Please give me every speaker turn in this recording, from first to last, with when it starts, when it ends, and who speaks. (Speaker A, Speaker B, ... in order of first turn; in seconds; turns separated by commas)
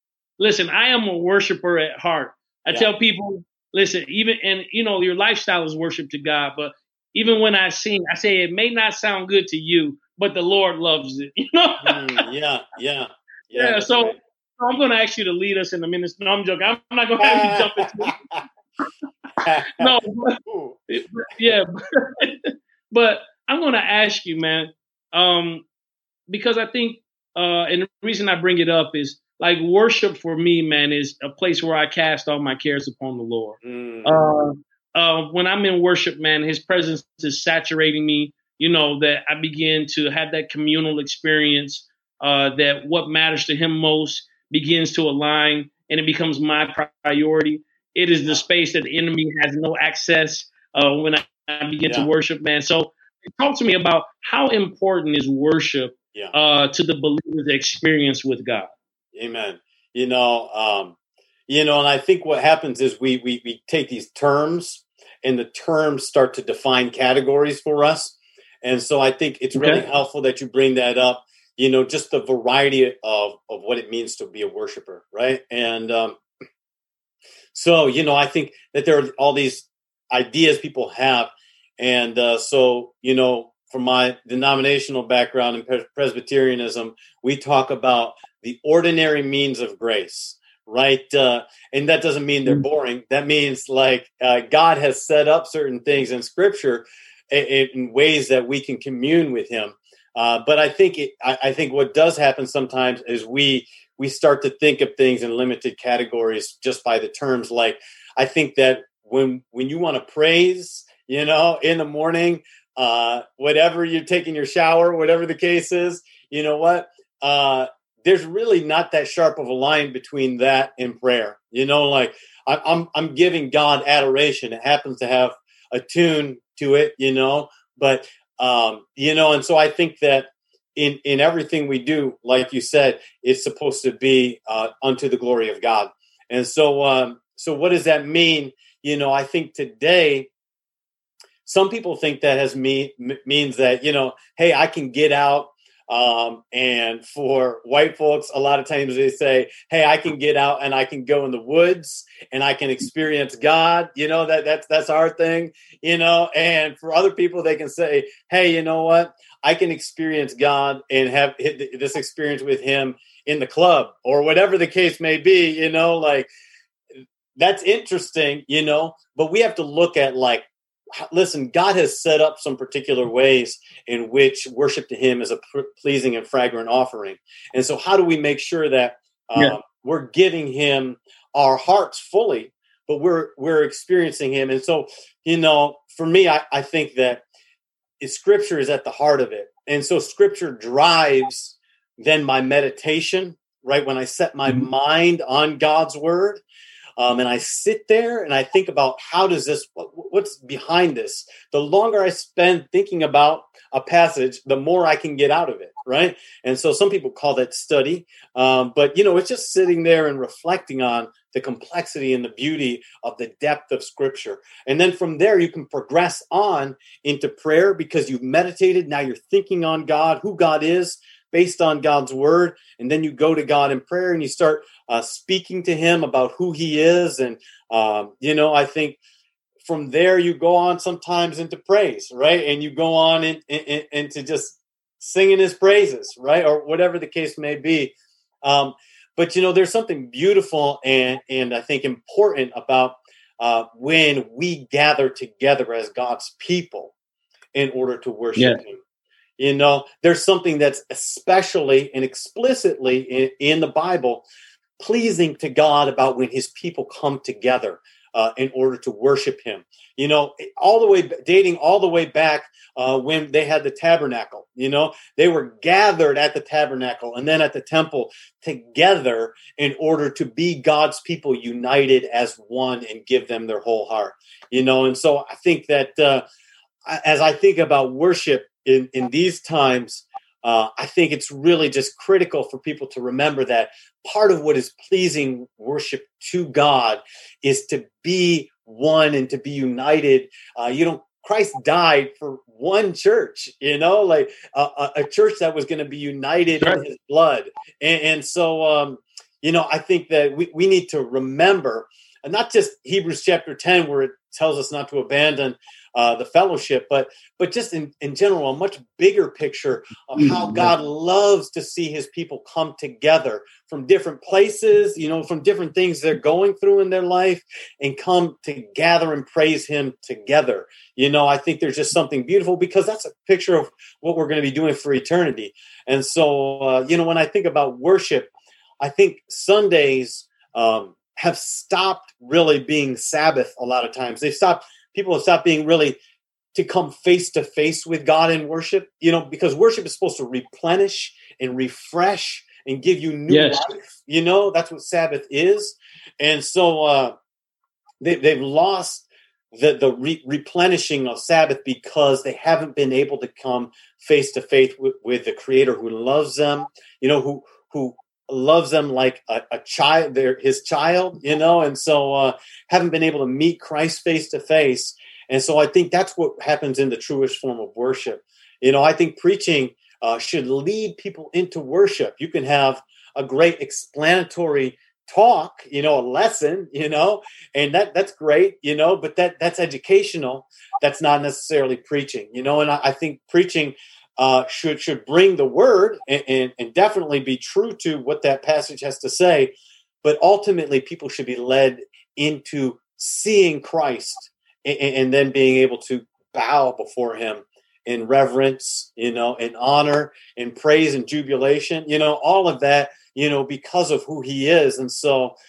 Speaker A: 0.4-12.0, Speaker B: 11.8-14.2, Speaker A: 13.5-18.2, Speaker B: 17.2-18.4, Speaker B: 19.4-19.9, Speaker A: 19.8-25.6, Speaker B: 20.4-20.8, Speaker A: 26.3-58.7, Speaker B: 33.6-34.2, Speaker B: 59.1-61.0, Speaker B: 61.5-76.2, Speaker A: 69.5-69.8, Speaker B: 77.5-140.3, Speaker B: 141.4-166.3, Speaker B: 167.3-187.2, Speaker B: 188.0-196.4, Speaker B: 197.0-229.0, Speaker B: 229.6-246.9, Speaker B: 247.5-248.8, Speaker A: 248.3-248.6, Speaker B: 249.4-254.2, Speaker B: 254.8-276.2, Speaker B: 276.9-336.0, Speaker A: 310.2-310.7, Speaker B: 336.5-347.1, Speaker A: 343.3-343.6, Speaker B: 348.0-405.3